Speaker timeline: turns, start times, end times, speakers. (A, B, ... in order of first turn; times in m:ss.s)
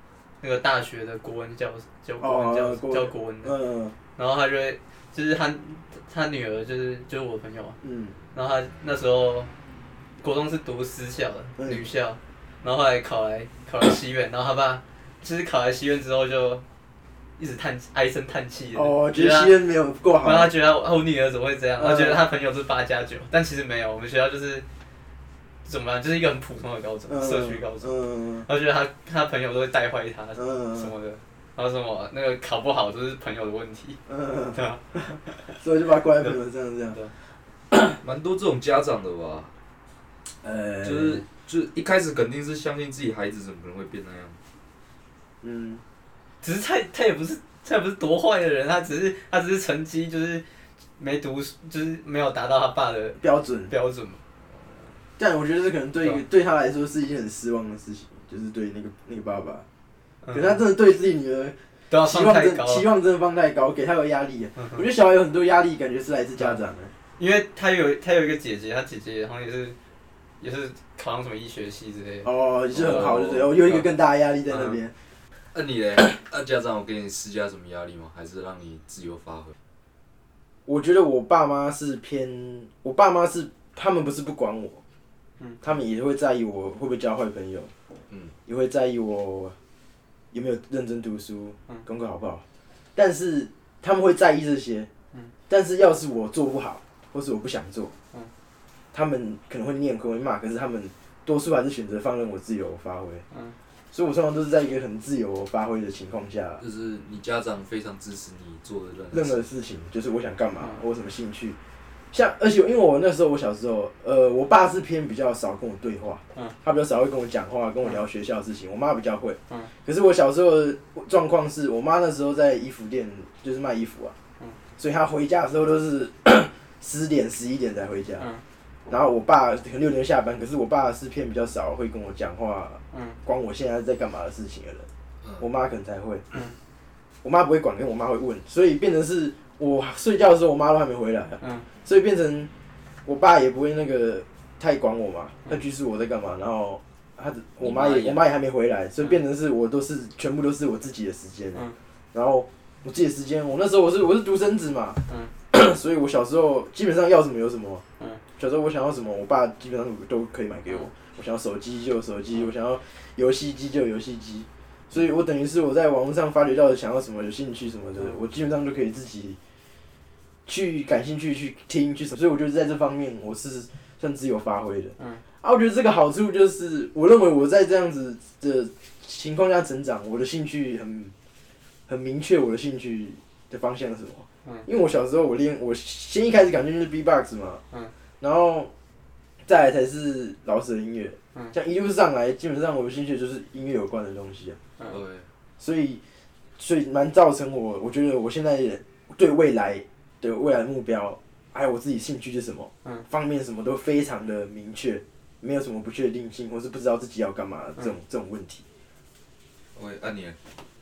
0:00.4-0:03.5 A
0:02.2-0:04.0 B
0:04.2-0:07.8 A
0:07.8-0:08.2 B
0:08.3-0:09.5 A
0:10.2-0:16.6 A
0:17.4-0:19.5 A
0:18.7-0:20.5 B
0:20.2-0:24.6 A
0:21.8-0:22.2 B
0:25.6-0:27.9 A
0:27.1-0:28.5 B
0:28.4-0:34.0 A
0:30.4-0:30.9 B
0:34.1-0:34.6 B
0:34.5-0:35.6 A
0:35.6-0:37.0 B
0:38.0-0:39.5 C
0:40.4-0:41.2 B
0:40.8-0:44.4 C
0:45.4-0:45.8 B
0:46.4-0:50.4 A
0:51.0-0:53.2 A
0:53.2-0:53.7 B
0:53.7-0:54.2 A
0:55.2-0:59.6 B
1:00.2-1:00.6 A
1:00.3-1:06.9 B
1:01.9-1:02.9 A
1:04.6-1:04.8 A
1:07.2-1:09.8 A
1:10.4-1:13.8 A
1:12.2-1:14.9 B
1:12.7-1:13.6 C
1:14.5-1:14.8 A
1:15.5-1:19.6 C
1:20.6-1:24.8 B
1:25.6-1:27.7 B
1:28.4-1:29.5 B
1:30.3-1:32.4 B
1:32.9-1:34.9 B
1:35.5-1:37.9 B
1:38.9-1:43.2 B
1:43.9-1:46.6 B
1:46.6-1:49.4 C
1:49.1-1:51.6 B
1:52.1-2:04.1 B
2:04.8-2:08.2 B
2:08.9-2:14.9 B
2:12.9-2:13.2 A
2:15.4-2:16.2 B
2:17.2-2:22.5 B
2:21.4-2:21.7 A
2:23.0-2:35.0 B
2:27.6-2:28.2 C
2:35.5-2:37.8 B
2:38.4-2:49.4 B
2:50.4-3:01.1 B
2:55.0-2:55.2 A
3:01.9-3:07.6 B
3:08.2-3:08.7 B
3:09.4-3:14.6 B
3:14.9-3:15.3 C
3:15.6-3:16.0 B
3:16.6-3:28.6 B
3:29.7-3:30.4 C